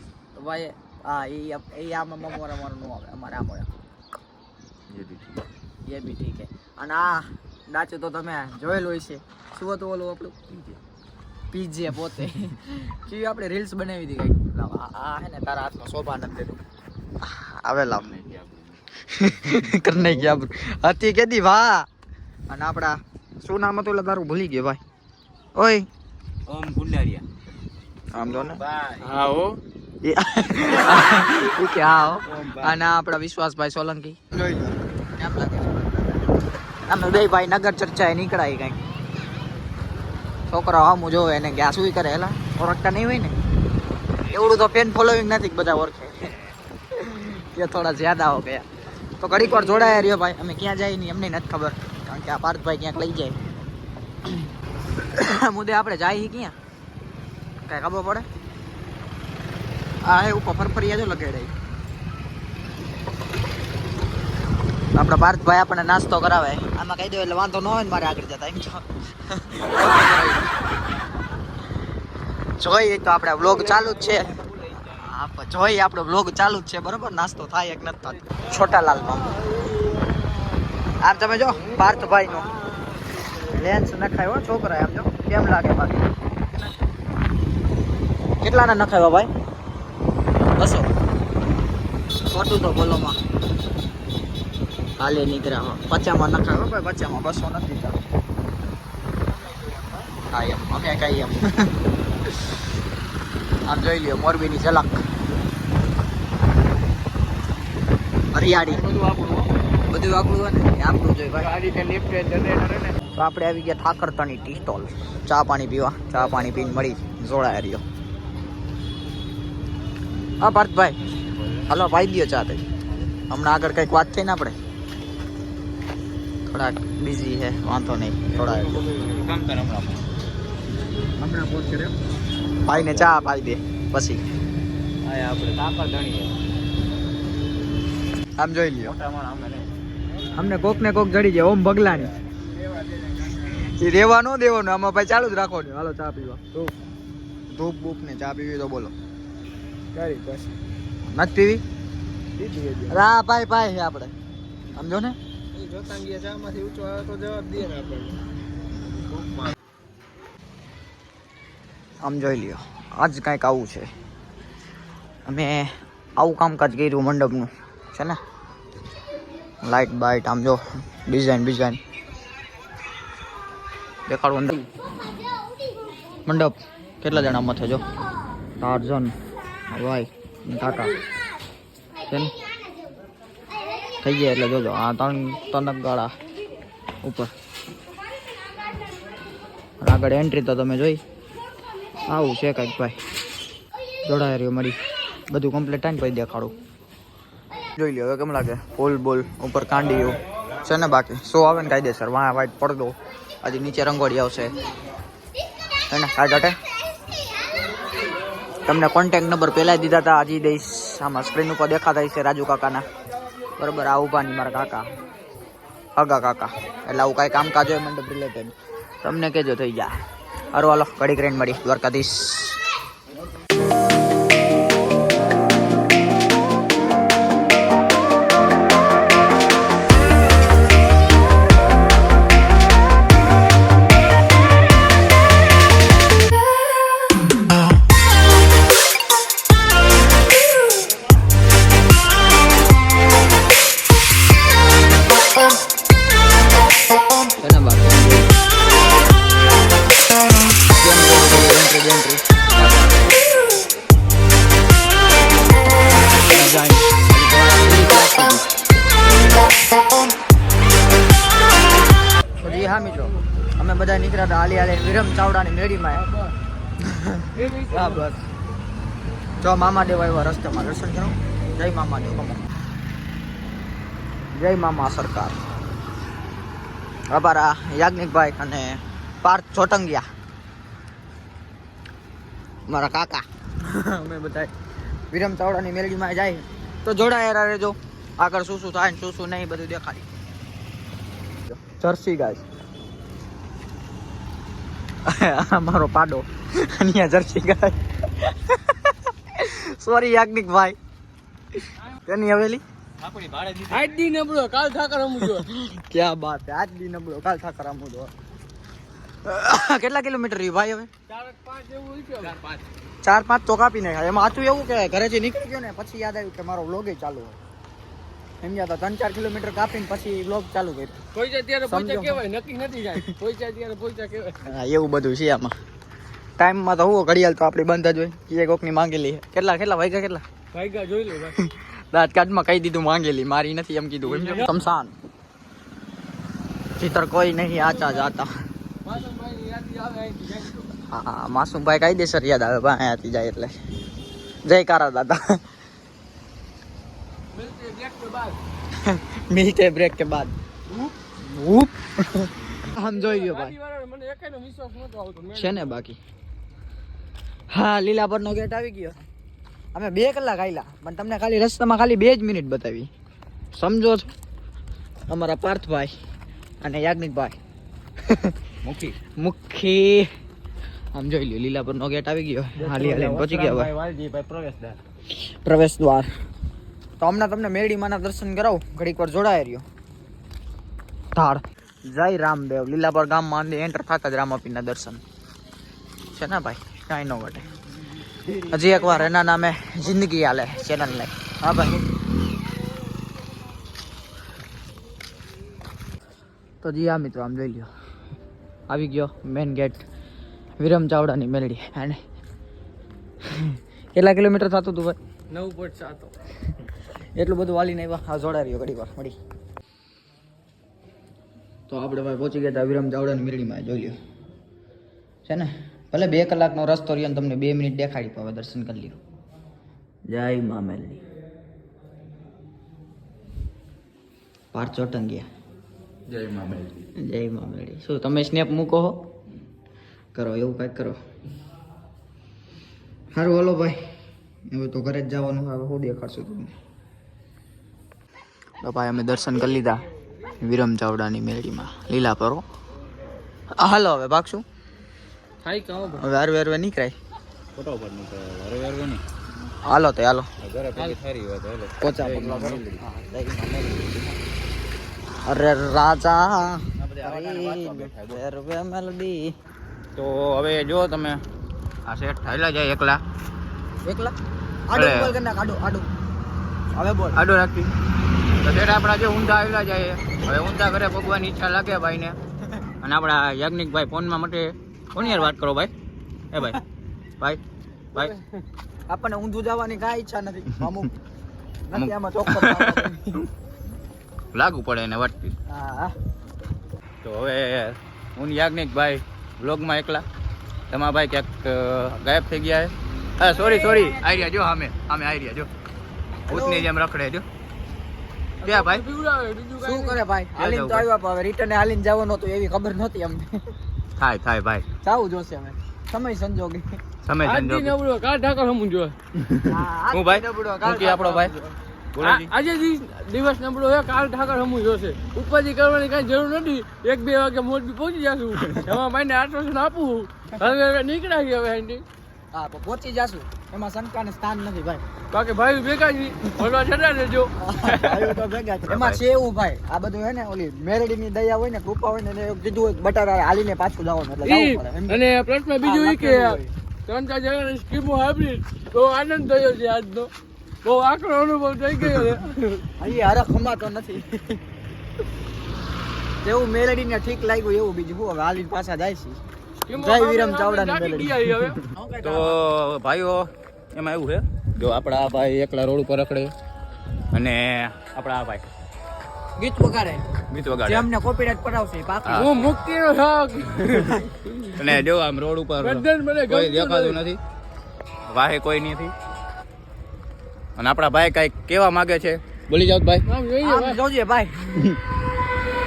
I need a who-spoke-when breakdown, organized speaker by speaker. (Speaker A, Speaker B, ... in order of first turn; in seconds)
Speaker A: 0.3-3.7, 5.9-10.4, 11.5-16.6, 17.2-18.1, 19.1-21.9, 22.5-24.8, 25.6-25.9, 28.1-28.6, 30.0-36.2, 36.9-38.8, 40.5-43.4, 44.2-46.3, 46.9-48.7, 49.2-53.4, 55.0-56.6, 57.7-58.3, 60.0-61.5, 65.0-70.5, 72.6-74.3, 74.9-79.3, 81.0-82.5, 83.5-86.1, 88.4-89.3, 90.6-90.9, 92.3-93.2, 95.0-98.0, 100.3-101.7, 103.7-105.0, 108.3-108.9, 109.9-111.5, 113.2-117.8, 120.4-121.0, 121.7-122.6, 123.3-124.6, 126.5-128.8, 132.7-134.2, 138.4-138.9, 140.3-142.1, 143.6-146.4, 147.5-148.9, 151.1-151.6, 152.9-154.1, 154.8-155.2, 162.0-163.9, 165.3-168.2, 169.6-171.8, 174.1-174.7, 176.3-177.8, 178.6-179.1, 179.7-180.9, 184.0-186.1, 187.0-187.3, 189.8-191.0, 192.1-193.0, 194.1-194.8, 195.3-196.6, 197.8-204.6, 205.9-206.6, 208.7-212.8, 213.6-214.9, 216.0-219.9, 220.5-222.6, 247.4-248.3, 250.7-252.9, 256.3-258.5, 262.4-266.1, 266.8-268.2, 269.4-272.4, 274.3-275.4, 277.1-280.1, 282.7-284.5, 285.1-290.1, 291.5-292.4, 295.1-300.8, 302.0-302.6, 305.3-308.1, 309.2-310.9, 313.0-317.4, 318.4-320.9, 321.7-322.2, 324.4-325.5, 326.4-330.2, 331.3-334.9, 336.8-338.3, 340.9-343.6, 344.4-345.4, 348.8-350.3, 351.2-353.6, 355.3-356.0, 357.5-359.0, 359.8-362.9, 363.5-364.1, 365.1-365.9, 366.6-367.4, 368.1-368.3, 369.2-370.1, 370.9-373.7, 375.1-376.1, 377.0-379.6, 381.1-385.0, 386.1-387.4, 388.5-391.8, 396.6-397.7, 398.7-399.9, 400.6-402.0, 403.3-405.0, 407.2-409.2, 411.7-414.0, 415.3-419.0, 420.1-421.0, 424.5-425.3, 427.0-429.0, 430.1-431.0, 433.1-433.8, 434.5-436.5, 438.6-439.8, 440.4-442.4, 443.6-444.4, 445.9-446.9, 449.6-450.3, 451.8-454.2, 455.3-459.3, 463.9-464.1, 464.7-465.9, 466.7-467.2, 475.0-475.3, 478.9-480.9, 481.7-483.3, 485.5-486.0, 493.4-493.9, 496.3-496.7, 499.6-503.4, 504.8-506.7, 509.4-511.5, 522.3-524.8, 527.4-535.0, 535.6-536.5, 542.8-544.4, 546.2-549.2, 549.7-552.4, 559.4-560.0, 560.6-562.5, 573.4-574.8
Speaker B: 4.9-5.3, 17.9-18.8, 26.5-27.2, 28.4-29.5, 32.3-32.8, 111.7-112.1, 128.3-130.1, 131.2-131.9, 132.7-133.3, 135.0-136.4, 138.8-139.7, 303.0-303.9, 312.2-312.6, 368.6-369.0, 372.6-374.8, 426.1-426.9, 447.6-449.0, 450.4-452.8, 456.8-458.2, 460.0-461.2, 461.9-463.0, 464.7-465.1, 467.2-467.7, 468.4-472.2, 472.8-475.7, 476.3-476.6, 481.7-482.9, 484.3-485.3, 487.0-490.1, 490.7-495.5, 496.3-497.3, 498.4-498.8, 500.4-500.9, 504.0-504.6, 507.0-507.8, 509.1-511.3, 511.9-512.3, 528.6-529.0, 552.0-556.3, 557.1-558.4, 560.3-560.9, 562.0-562.3, 564.5-567.2, 568.1-568.9, 570.6-573.0
Speaker C: 109.0-109.4, 111.5-112.9, 149.9-150.5, 152.4-153.0, 155.6-158.2, 267.4-268.1, 303.7-305.5, 311.1-312.4, 321.1-324.4, 330.5-331.4, 334.1-334.5, 338.9-340.7, 347.3-348.4, 352.8-355.7, 372.7-373.1, 405.3-406.1, 445.4-446.0, 498.4-500.0, 507.2-508.9, 512.0-521.9, 525.1-527.3, 534.2-540.1, 540.6-542.7, 549.6-551.6, 562.1-564.5, 565.6-567.0, 573.1-573.8